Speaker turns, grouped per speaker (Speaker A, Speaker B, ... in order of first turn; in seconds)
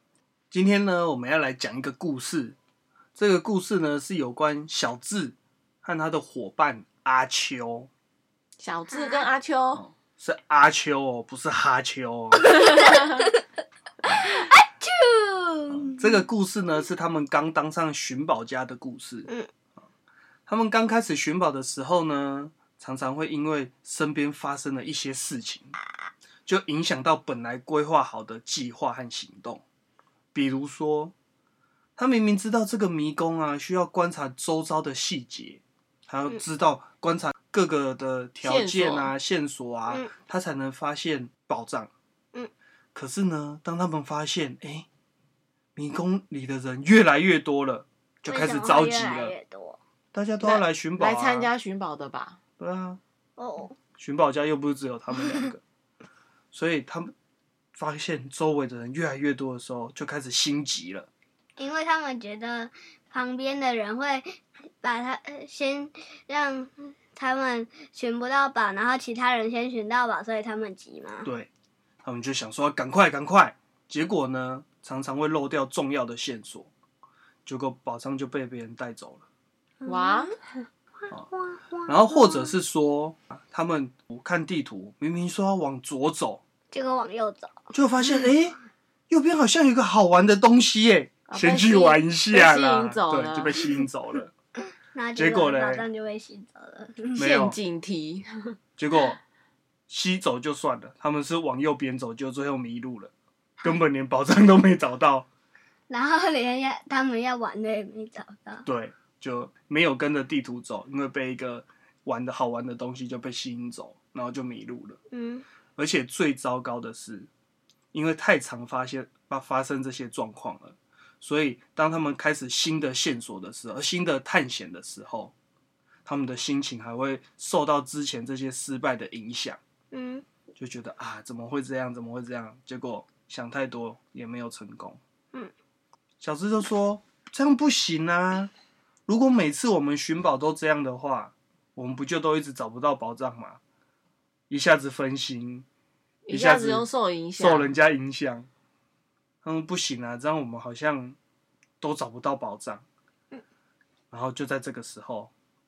Speaker A: 0.5-2.6, 3.1-7.9, 9.7-12.6, 15.7-19.3, 20.5-25.8, 26.4-29.6, 30.3-31.1, 32.0-41.9, 42.9-44.9, 45.8-49.3, 50.1-51.5, 52.6-53.0, 54.0-55.6, 56.5-57.1, 57.7-61.1, 71.2-71.5, 72.0-76.7, 77.5-79.2, 81.9-86.4, 87.7-88.6, 89.1-94.3, 95.1-95.9, 97.2-97.6, 98.8-99.2, 99.9-103.1, 103.6-105.3, 108.6-115.0, 115.8-117.3, 117.9-125.3, 126.0-129.6, 130.6-135.0, 136.2-138.5, 139.1-143.6, 144.5-145.7, 146.3-148.5, 149.4-151.2, 151.8-152.8, 154.1-155.3
Speaker B: 8.6-9.8, 38.4-39.1, 50.4-52.4, 79.8-80.4, 91.3-93.6, 97.2-98.5, 146.2-147.7
Speaker C: 8.9-9.3, 12.4-13.4, 14.2-16.2, 48.2-49.8, 53.4-53.8, 61.6-71.3, 79.8-80.2, 81.0-82.5, 86.7-87.5, 94.9-97.2, 105.9-108.7, 115.1-115.4, 129.9-130.2